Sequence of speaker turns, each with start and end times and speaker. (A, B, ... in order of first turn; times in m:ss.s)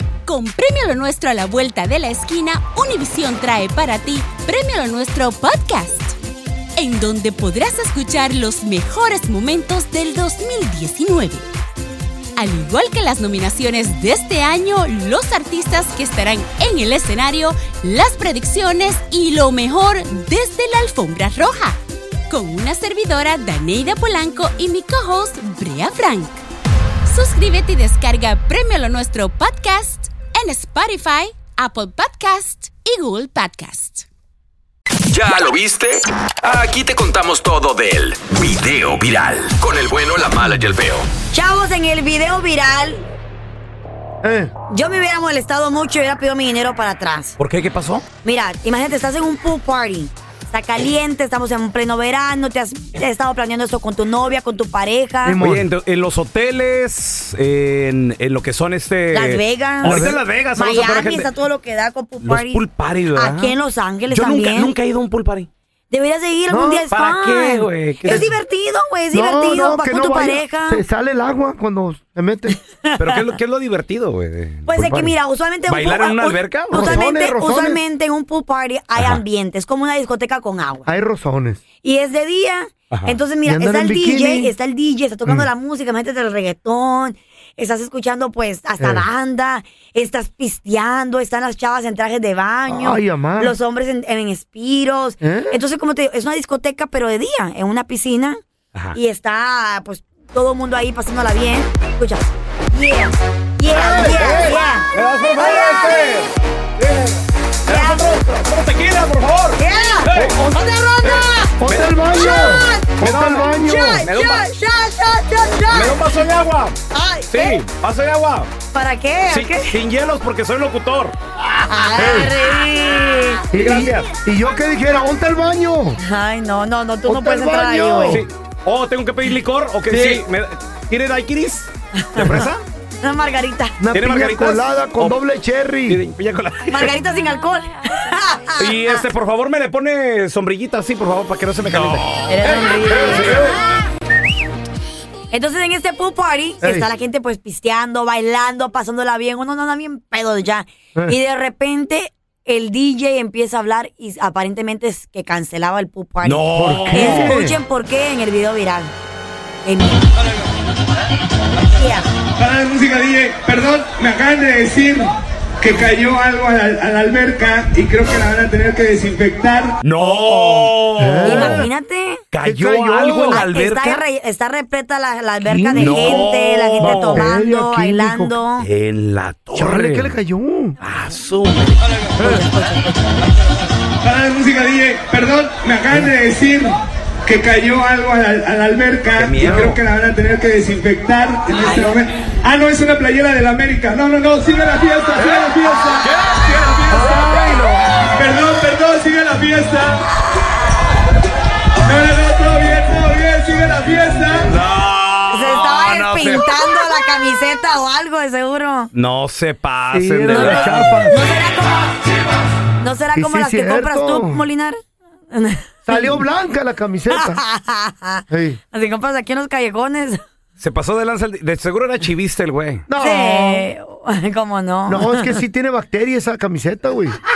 0:00.3-0:06.2 A
0:06.8-0:11.4 A
0:12.4-0:21.8 A
0:22.3-0:26.4 A
0:27.1-0:34.1 A
0:35.1-0:41.1 B
0:41.3-0:43.1 C
0:44.2-0:44.5 D
0:44.7-0:47.4 C
0:47.4-0:48.1 E
0:48.2-0:55.4 C
0:55.2-0:55.7 D
0:55.4-1:01.3 E
0:59.1-1:04.7 C
0:59.8-1:00.2 D
1:02.2-1:03.6 E
1:04.1-1:05.5 E
1:05.9-1:10.8 C
1:06.5-1:06.9 D
1:06.9-1:08.3 E
1:08.1-1:08.4 D
1:09.1-1:12.6 D
1:12.8-1:13.3 C
1:13.0-1:14.8 E
1:14.6-1:20.9 C
1:14.8-1:15.1 D
1:15.7-1:17.0 E
1:16.7-1:17.8 D
1:19.0-1:19.2 E
1:20.9-1:21.6 D
1:21.8-1:38.4 C
1:22.9-1:23.2 E
1:23.4-1:24.5 D
1:28.8-1:29.0 D
1:32.7-1:33.6 D
1:35.2-1:35.6 D
1:38.9-1:46.2 C
1:43.7-1:50.4 E
1:43.9-1:44.4 D
1:47.7-1:48.2 C
1:49.6-1:56.1 C
1:50.1-1:50.6 D
1:51.0-1:52.0 E
1:51.6-1:54.1 D
1:53.0-1:54.5 E
1:55.7-1:58.5 E
1:56.9-1:57.6 C
1:58.7-1:59.8 C
1:59.3-2:01.2 E
2:01.6-2:03.5 C
2:02.0-2:02.3 D
2:03.5-2:06.0 D
2:03.5-2:04.1 E
2:06.0-2:08.2 C
2:07.1-2:08.3 D
2:08.1-2:12.6 E
2:09.9-2:10.2 D
2:12.0-2:13.8 C
2:13.8-2:16.0 D
2:13.9-2:15.2 E
2:15.9-2:17.0 E
2:16.7-2:19.0 C
2:18.6-2:23.6 E
2:22.3-2:23.6 C
2:25.3-2:38.9 C
2:26.6-2:26.9 D
2:36.2-2:37.4 E
2:36.5-2:37.6 D
2:39.6-2:40.1 C
2:41.7-2:42.1 C
2:42.4-2:49.8 F
2:49.8-2:51.7 E
2:51.0-2:51.7 D
2:51.2-2:52.2 C
2:52.3-2:54.0 E
2:52.4-2:53.5 D
2:53.2-2:58.7 C
2:55.4-2:58.4 D
2:55.8-2:57.3 E
2:58.6-3:00.1 E
2:59.5-3:00.8 D
3:00.8-3:01.8 E
3:02.2-3:02.4 D
3:02.2-3:03.2 C
3:04.0-3:16.1 F
3:09.2-3:09.8 E
3:11.6-3:12.0 C
3:15.1-3:15.5 E
3:16.0-3:17.6 E
3:16.9-3:17.8 D
3:18.1-3:20.0 F
3:21.8-3:24.5 F
3:24.5-3:26.8 E
3:25.3-3:28.9 C
3:28.9-3:31.2 E
3:29.9-3:31.2 D
3:30.3-3:31.9 C
3:32.8-3:34.8 C
3:33.1-3:34.5 D
3:35.3-3:36.2 C
3:35.9-3:37.4 D
3:37.1-3:40.2 C
3:38.3-3:38.6 D
3:40.6-3:42.9 E
3:42.9-3:43.7 D
3:43.0-3:45.4 C
3:44.9-3:47.2 D